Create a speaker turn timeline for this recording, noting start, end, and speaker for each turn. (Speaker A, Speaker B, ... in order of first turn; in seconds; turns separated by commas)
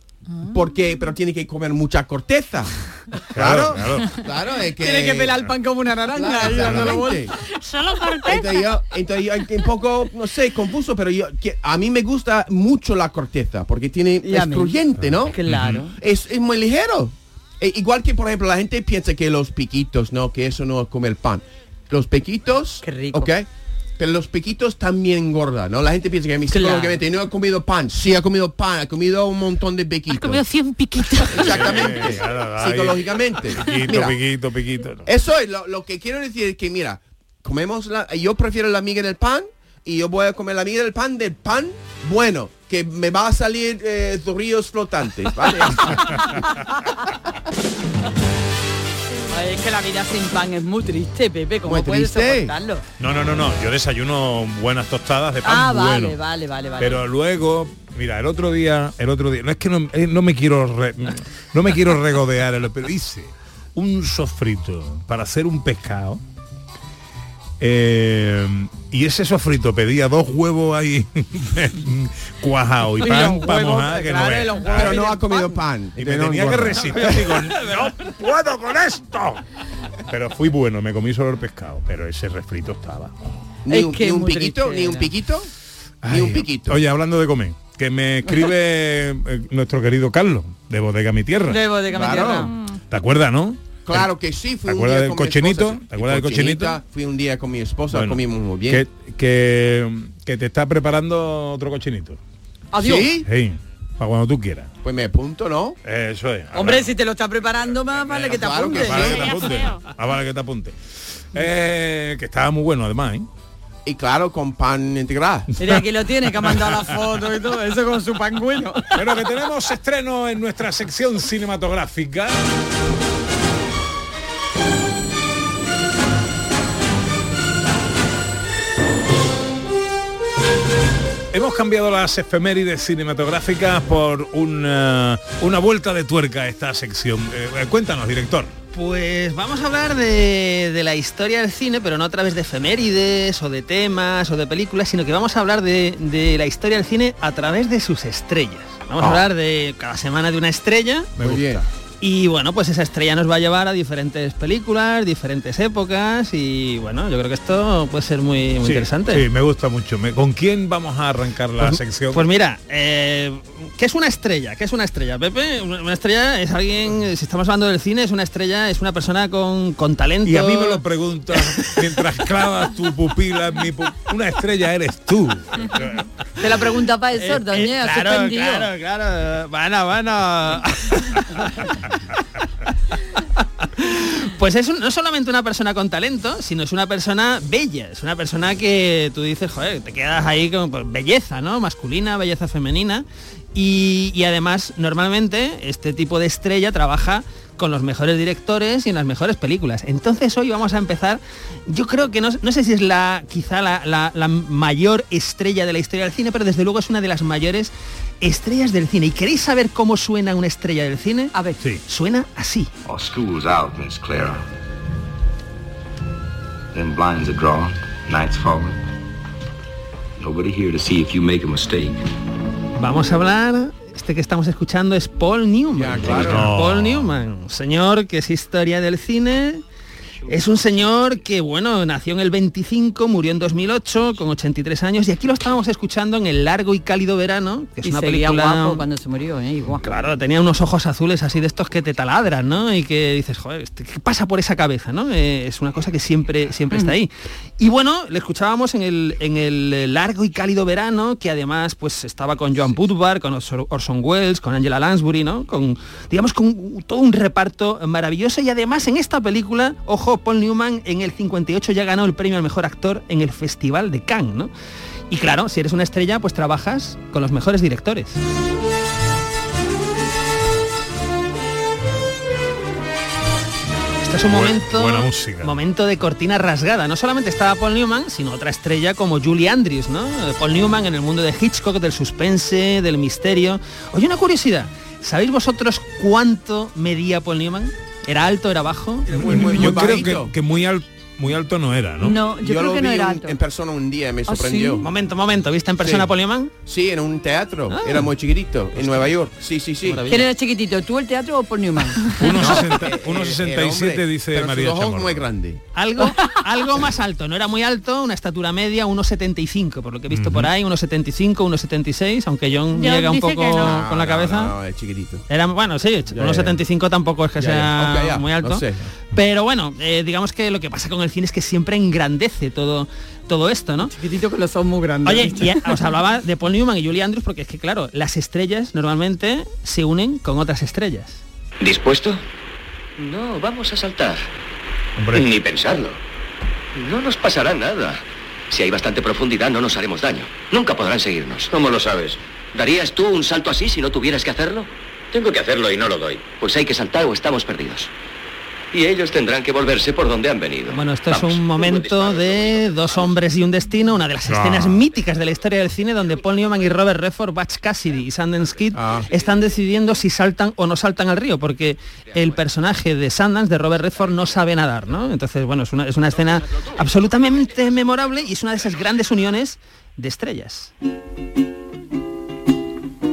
Speaker A: 0.5-5.5, Speaker B: 3.3-4.2, Speaker C: 4.8-7.2, Speaker A: 6.1-7.3, Speaker B: 6.5-6.9, Speaker D: 7.4-8.7, Speaker A: 8.3-15.4, Speaker C: 14.2-15.9, Speaker B: 15.5-15.8, Speaker A: 15.9-30.4, Speaker C: 22.8-23.3, Speaker C: 26.5-27.0, Speaker D: 30.1-32.0, Speaker A: 31.3-34.2, Speaker B: 31.3-35.1, Speaker A: 35.1-46.4, Speaker C: 45.5-46.9, Speaker C: 49.3-52.8, Speaker A: 51.6-52.5, Speaker B: 53.0-56.2, Speaker C: 55.4-57.0, Speaker B: 56.8-66.2, Speaker B: 67.6-75.0, Speaker C: 73.0-75.6, Speaker A: 74.7-77.3, Speaker B: 76.0-79.4, Speaker E: 76.8-77.9, Speaker B: 80.1-83.3, Speaker A: 83.7-85.5, Speaker C: 83.7-85.1, Speaker B: 86.0-91.7, Speaker A: 86.1-86.8, Speaker C: 91.5-92.5, Speaker A: 91.9-92.5, Speaker D: 92.4-92.8, Speaker B: 92.9-94.1, Speaker A: 93.9-98.8, Speaker B: 94.6-96.8, Speaker B: 97.9-102.2, Speaker C: 102.7-103.1, Speaker A: 102.8-103.3, Speaker B: 103.2-104.7, Speaker A: 104.8-105.8, Speaker B: 105.8-107.0, Speaker C: 106.5-109.2, Speaker B: 107.8-110.8, Speaker A: 108.3-109.4, Speaker D: 109.0-109.9, Speaker B: 111.3-113.3, Speaker A: 113.8-115.5, Speaker C: 115.6-119.0, Speaker B: 119.0-122.4, Speaker B: 131.3-138.5, Speaker E: 138.7-151.1, Speaker A: 149.0-149.2, Speaker B: 151.2-151.7, Speaker A: 151.2-151.6, Speaker E: 152.0-159.3, Speaker B: 158.6-162.3, Speaker E: 161.6-170.8, Speaker B: 170.2-176.1, Speaker E: 171.4-171.8, Speaker C: 176.4-178.7, Speaker E: 177.2-181.7, Speaker E: 183.7-211.3, Speaker C: 211.3-211.6, Speaker E: 211.9-212.7, Speaker F: 212.8-214.4, Speaker F: 216.7-218.8, Speaker F: 220.2-222.0, Speaker E: 222.8-229.6, Speaker A: 225.7-226.5, Speaker B: 226.0-227.1, Speaker E: 230.3-238.8, Speaker C: 237.8-239.9, Speaker E: 239.8-264.5, Speaker E: 265.1-268.2, Speaker E: 274.0-289.8, Speaker B: 274.3-275.6, Speaker A: 289.1-290.3, Speaker B: 289.3-292.2, Speaker C: 292.0-293.4, Speaker A: 292.4-294.9, Speaker C: 294.3-294.9, Speaker E: 294.8-296.5, Speaker A: 295.8-296.1, Speaker A: 296.6-300.1, Speaker E: 297.7-298.1, Speaker E: 299.8-300.2, Speaker C: 300.1-302.6, Speaker B: 302.2-305.3, Speaker A: 302.3-305.6, Speaker E: 305.8-314.5, Speaker B: 310.1-310.5, Speaker D: 312.7-313.9, Speaker A: 313.6-315.2, Speaker E: 315.3-323.9, Speaker A: 316.1-316.6, Speaker A: 317.4-318.9, Speaker C: 323.8-325.6, Speaker E: 325.1-331.2, Speaker G: 331.6-332.2, Speaker G: 333.0-334.3, Speaker B: 335.0-335.3, Speaker G: 335.1-336.0, Speaker G: 336.8-347.9, Speaker G: 348.7-353.1, Speaker E: 350.7-370.7, Speaker B: 354.3-354.8, Speaker A: 358.8-359.1